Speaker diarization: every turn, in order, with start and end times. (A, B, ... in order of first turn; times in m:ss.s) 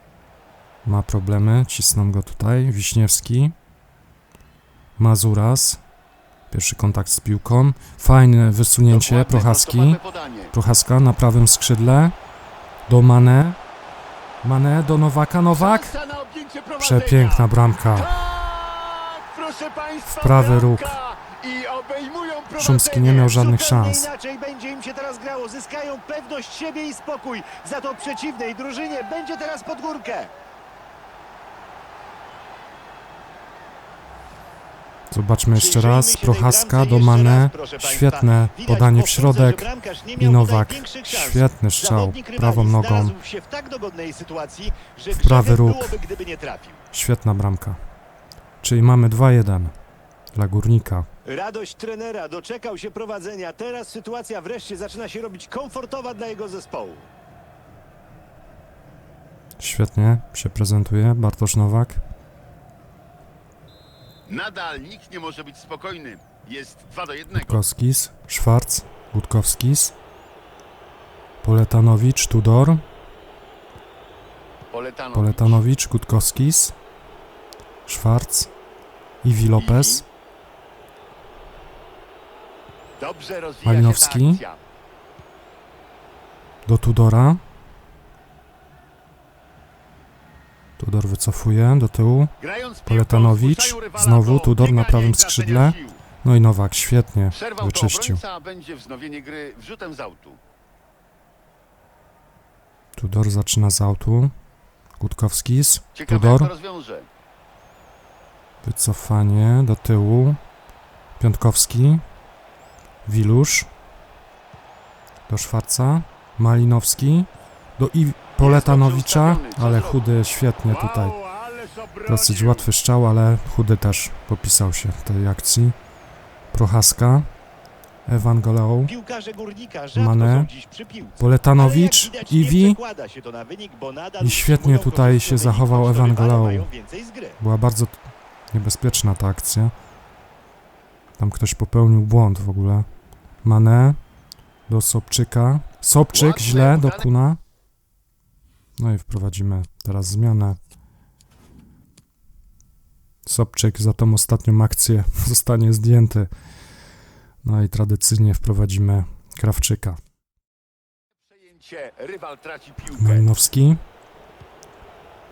0:00.8-0:03.6 A
0:05.0-0:05.8 A
0:06.5-0:10.0 A
0:08.9-0:10.5 B
0:10.5-0:12.1 A
0:12.9-0:13.6 A
0:14.4-0:15.9 A
0:15.5-0:23.4 B
0:16.8-0:18.1 A
0:20.1-0:21.0 A
0:22.6-0:24.1 A
0:23.3-0:30.3 C
0:35.1-0:43.1 A
0:35.5-0:46.8 C
0:45.1-0:46.0 A
0:46.9-0:47.8 A
0:48.6-0:49.8 A
0:50.3-0:51.1 A
0:51.2-0:57.1 C
0:59.6-1:02.0 A
1:04.3-1:07.6 B
1:07.3-1:10.0 A
1:11.4-1:12.8 A
1:14.7-1:15.6 B
1:15.1-1:16.8 A
1:17.9-1:18.5 A
1:19.2-1:20.0 A
1:19.6-1:20.0 B
1:23.0-1:24.6 B
1:23.6-1:24.4 A
1:26.6-1:27.4 A
1:30.8-1:32.3 A
1:32.4-1:36.0 B
1:32.9-1:38.2 A
1:37.3-1:40.4 B
1:43.0-1:44.3 A
1:45.0-1:46.5 A
1:45.9-1:47.1 B
1:48.6-1:50.4 A
1:51.2-1:52.0 A
1:53.0-1:53.7 A
1:55.3-2:01.2 A
1:58.4-2:00.0 B
2:00.7-2:02.7 B
2:02.1-2:05.8 A
2:06.5-2:07.3 A
2:08.1-2:08.9 A
2:08.9-2:17.4 C
2:09.9-2:10.5 A
2:11.2-2:12.8 A
2:14.2-2:16.7 A
2:17.4-2:18.0 A
2:18.5-2:19.7 A
2:21.2-2:22.9 A
2:23.4-2:24.0 A
2:24.7-2:27.4 A
2:26.1-2:27.1 B
2:28.8-2:30.6 A
2:33.2-2:36.3 A
2:37.4-2:40.0 A
2:41.3-2:43.3 B
2:42.9-2:43.8 A